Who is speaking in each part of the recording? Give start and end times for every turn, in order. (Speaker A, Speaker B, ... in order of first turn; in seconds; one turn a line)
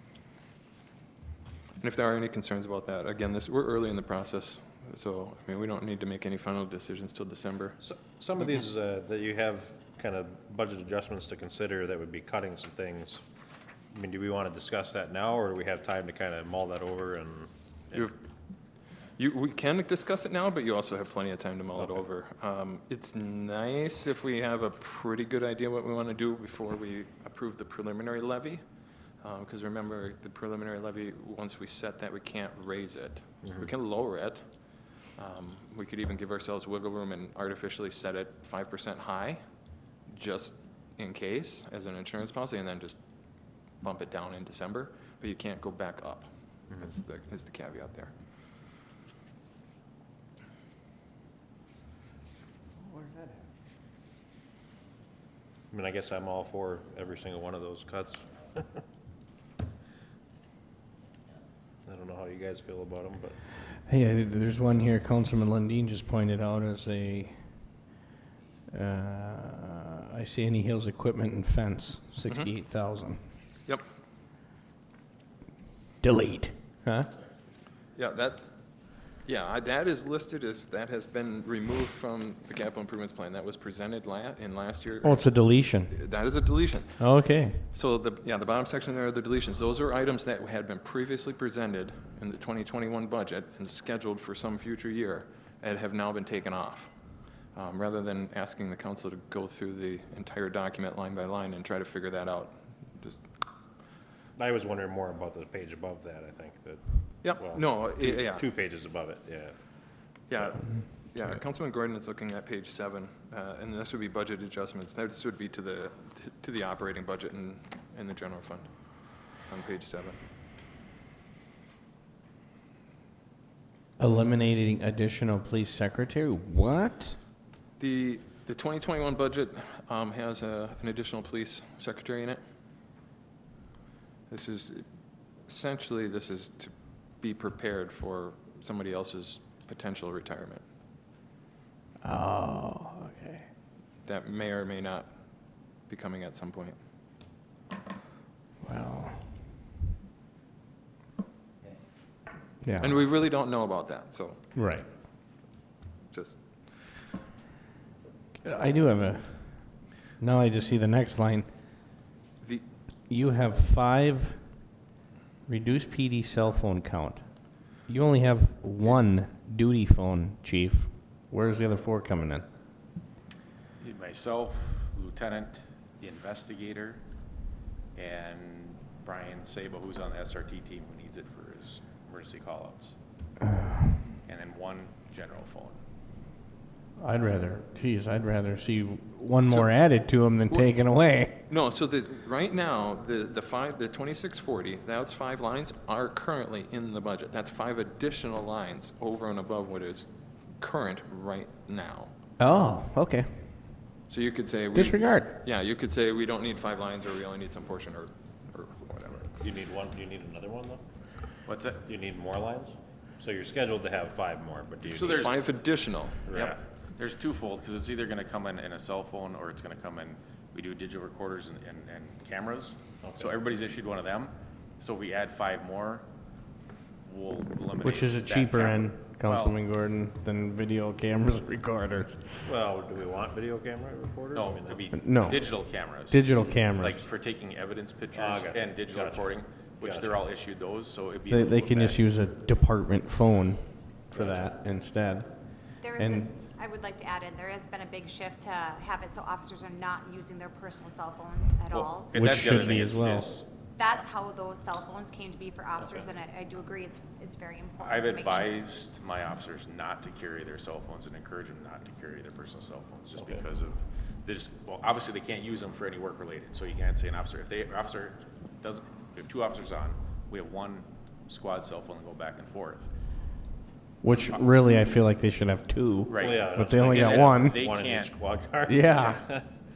Speaker A: 1.8-7.8
Speaker B: 7.8-13.2
Speaker B: 13.9-18.1
Speaker A: 19.2-28.6
Speaker A: 29.2-39.4
Speaker A: 40.1-48.1
Speaker B: 55.7-58.8
Speaker B: 61.9-63.4
Speaker C: 63.9-67.7
Speaker C: 68.7-73.2
Speaker C: 76.0-77.1
Speaker A: 78.0-78.4
Speaker A: 79.2-85.3
Speaker C: 85.0-85.9
Speaker A: 85.9-87.2
Speaker C: 87.0-87.6
Speaker A: 87.7-103.2
Speaker B: 104.4-109.6
Speaker A: 107.2-108.5
Speaker A: 110.3-120.2
Speaker C: 124.0-127.2
Speaker A: 127.8-132.4
Speaker A: 134.3-134.9
Speaker A: 135.4-140.6
Speaker C: 142.0-143.5
Speaker A: 144.0-146.8
Speaker C: 148.6-149.5
Speaker C: 152.6-153.0
Speaker A: 152.8-154.4
Speaker C: 154.6-154.9
Speaker A: 156.1-156.7
Speaker C: 158.4-161.5
Speaker C: 163.1-164.8
Speaker C: 165.5-172.4
Speaker D: 173.8-177.0
Speaker D: 177.9-182.9
Speaker D: 184.3-185.8
Speaker C: 187.0-191.4
Speaker A: 189.4-189.7
Speaker A: 191.5-202.1
Speaker C: 202.4-203.8
Speaker A: 204.1-209.3
Speaker C: 204.7-205.4
Speaker B: 209.4-210.8
Speaker D: 211.5-211.8
Speaker B: 211.9-215.4
Speaker D: 214.9-215.3
Speaker A: 214.9-216.2
Speaker B: 216.3-216.6
Speaker D: 216.3-226.1
Speaker B: 223.0-223.4
Speaker D: 227.0-229.6
Speaker C: 227.8-232.5
Speaker B: 232.4-234.8
Speaker D: 234.3-242.0
Speaker C: 234.9-237.1
Speaker B: 238.1-240.2
Speaker C: 241.3-246.3
Speaker E: 245.8-252.3
Speaker D: 251.7-254.0
Speaker C: 252.1-253.4
Speaker E: 253.8-258.5
Speaker D: 257.8-272.9
Speaker B: 263.2-263.4
Speaker C: 274.0-277.6
Speaker D: 274.1-274.4
Speaker D: 276.1-278.1
Speaker B: 276.2-279.5
Speaker C: 278.7-279.2